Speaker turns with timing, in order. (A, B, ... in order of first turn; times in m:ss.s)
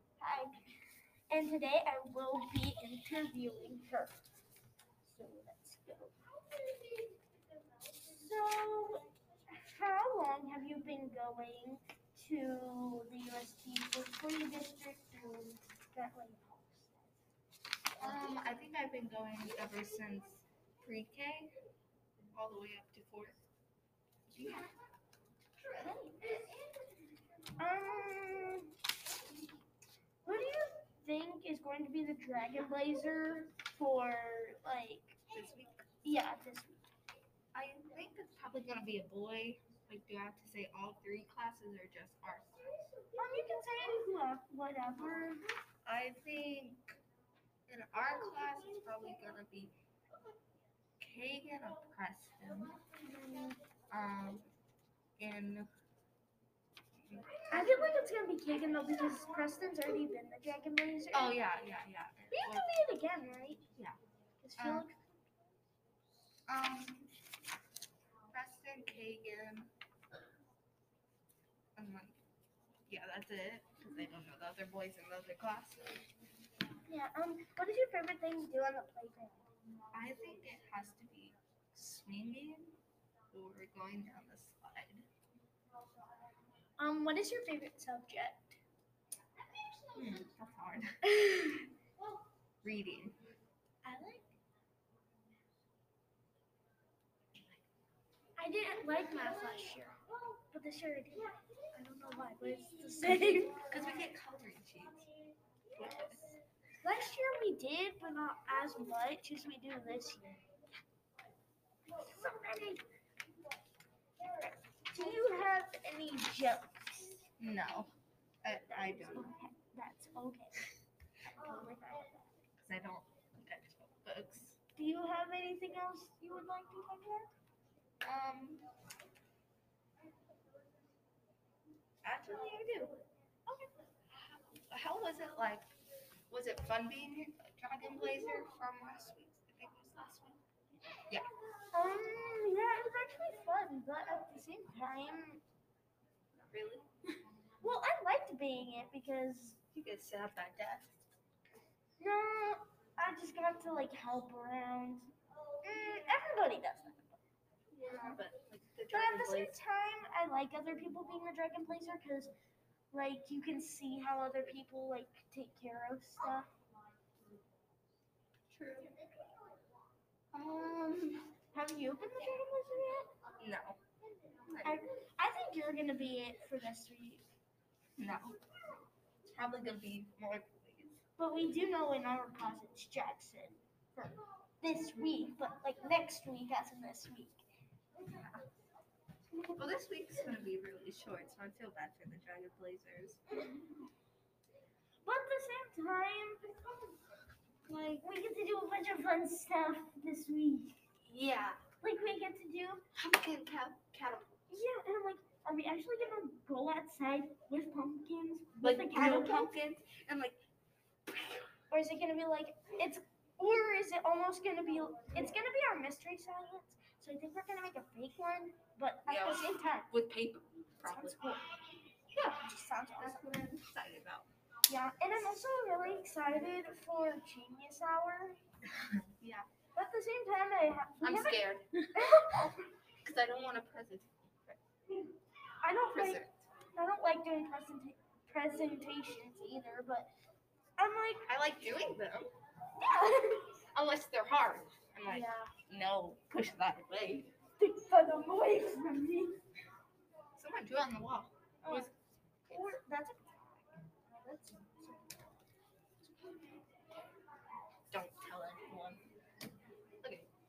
0:00.2-0:00.5 A
0:01.3-0:04.1 A
0:05.0-0:06.2 A
0:08.1-0:17.0 A
0:18.0-0:21.5 B
0:22.3-0:23.4 B
0:24.3-0:24.7 B
0:25.6-0:26.5 A
0:27.6-0:28.7 A
0:30.2-0:35.2 A
0:35.3-0:35.8 B
0:36.0-0:36.9 A
0:37.5-0:42.8 B
0:43.1-0:45.4 A
0:45.8-0:47.0 B
0:47.7-0:49.7 B
0:51.0-0:52.8 B
0:53.0-0:53.6 A
0:53.9-0:54.5 B
0:55.2-0:55.7 B
0:57.1-0:57.5 B
0:57.5-1:01.4 A
1:01.1-1:02.7 B
1:02.3-1:03.6 A
1:04.4-1:05.0 A
1:04.6-1:04.8 B
1:06.5-1:07.1 B
1:08.3-1:09.7 B
1:11.8-1:12.2 B
1:12.9-1:16.0 B
1:16.8-1:19.4 A
1:19.9-1:22.8 B
1:23.3-1:25.0 B
1:26.8-1:28.6 A
1:29.9-1:31.0 B
1:31.1-1:31.7 A
1:32.6-1:33.2 B
1:33.8-1:34.3 A
1:38.4-1:43.7 A
1:43.0-1:45.1 B
1:45.7-1:46.4 B
1:45.8-1:46.2 A
1:46.8-1:50.4 A
1:51.9-1:52.8 A
1:54.2-1:57.2 A
1:57.4-1:57.9 B
1:58.4-1:59.3 B
1:59.1-2:00.7 A
2:01.3-2:02.2 A
2:02.6-2:04.6 B
2:04.8-2:07.3 A
2:08.0-2:08.6 B
2:12.0-2:13.0 B
2:14.1-2:15.7 B
2:16.3-2:20.4 B
2:21.7-2:25.4 A
2:26.3-2:26.9 B
2:27.6-2:29.6 A
2:29.7-2:31.0 B
2:32.0-2:35.1 A
2:35.6-2:37.2 A
2:37.7-2:39.5 B
2:38.9-2:42.3 A
2:42.9-2:46.5 A
2:48.5-2:49.0 B
2:50.3-2:51.3 B
2:51.5-2:53.1 A
2:53.4-2:53.8 B
2:54.4-2:54.8 B
2:54.6-2:57.2 A
2:58.0-2:58.4 B
2:59.3-3:01.0 B
3:01.2-3:07.4 A
3:08.0-3:08.4 B
3:09.5-3:13.2 B
3:15.0-3:16.6 A
3:17.7-3:18.0 B
3:17.9-3:20.8 A
3:21.1-3:21.6 B
3:21.8-3:22.8 A
3:22.9-3:24.4 B
3:24.5-3:29.5 A
3:28.6-3:30.4 B
3:31.7-3:39.9 A
3:39.1-3:41.4 B
3:40.8-3:41.4 A
3:42.1-3:42.4 B
3:42.2-3:43.2 A
3:43.0-3:44.3 B
3:44.7-3:48.4 A
3:48.9-3:49.5 B
3:49.7-3:52.6 A
3:51.0-3:51.9 B
3:53.0-3:54.6 B
3:55.6-4:00.1 A
3:55.9-3:56.4 B
4:00.8-4:01.3 A
4:01.2-4:02.3 B
4:02.8-4:03.5 A
4:03.7-4:07.3 B
4:05.0-4:05.5 A
4:07.6-4:09.4 A
4:10.4-4:11.9 B
4:11.6-4:11.9 A
4:12.5-4:15.3 A
4:12.5-4:12.7 B
4:17.9-4:19.0 B
4:20.0-4:20.3 B